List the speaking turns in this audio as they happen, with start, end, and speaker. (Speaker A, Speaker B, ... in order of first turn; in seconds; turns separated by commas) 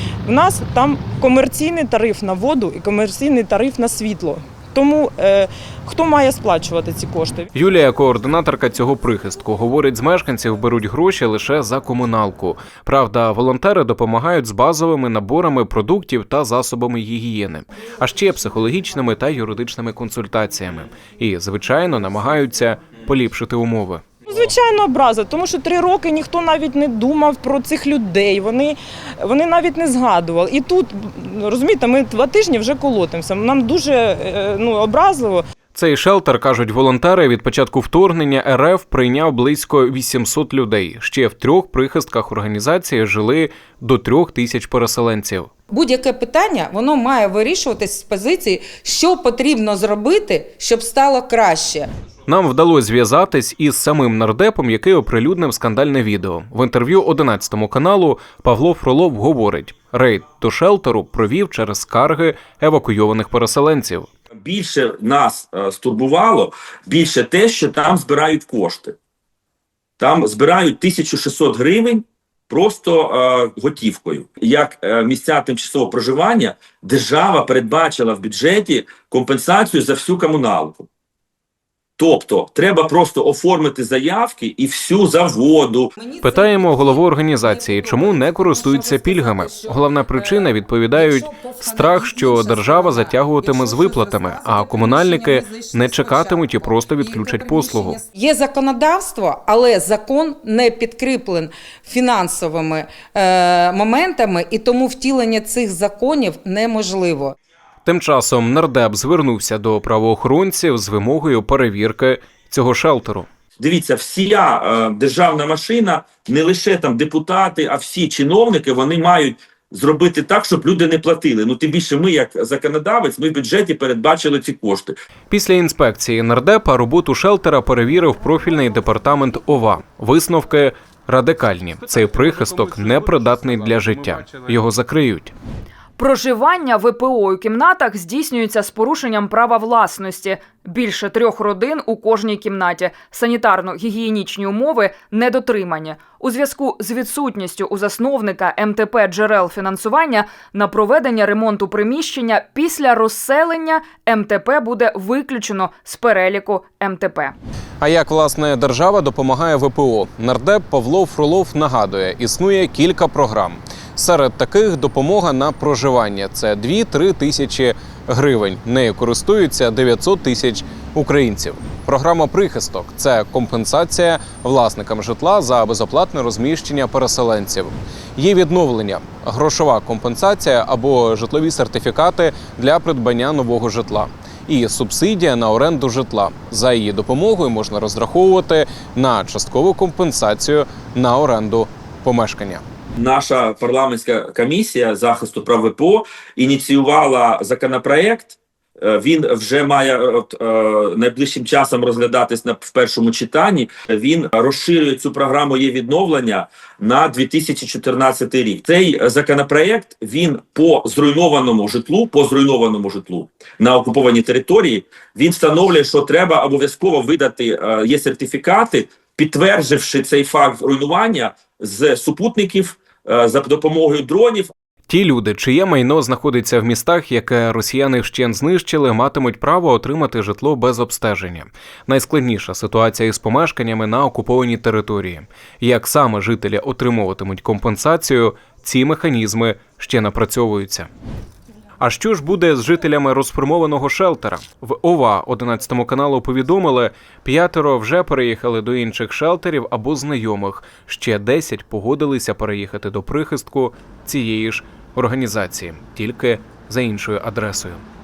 Speaker A: 0.2-7.5, Speaker B: 7.5-24.0, Speaker A: 24.3-35.4, Speaker B: 35.7-45.5, Speaker C: 45.7-51.9, Speaker B: 52.3-64.1, Speaker D: 64.4-69.0, Speaker D: 70.0-80.8, Speaker D: 82.0-85.9, Speaker C: 86.0-107.3, Speaker B: 86.2-98.0, Speaker B: 107.8-113.3, Speaker D: 113.6-124.9, Speaker B: 125.3-135.3, Speaker E: 136.0-157.3, Speaker B: 157.8-192.6, Speaker D: 192.9-224.5, Speaker B: 224.9-240.9, Speaker B: 241.8-257.8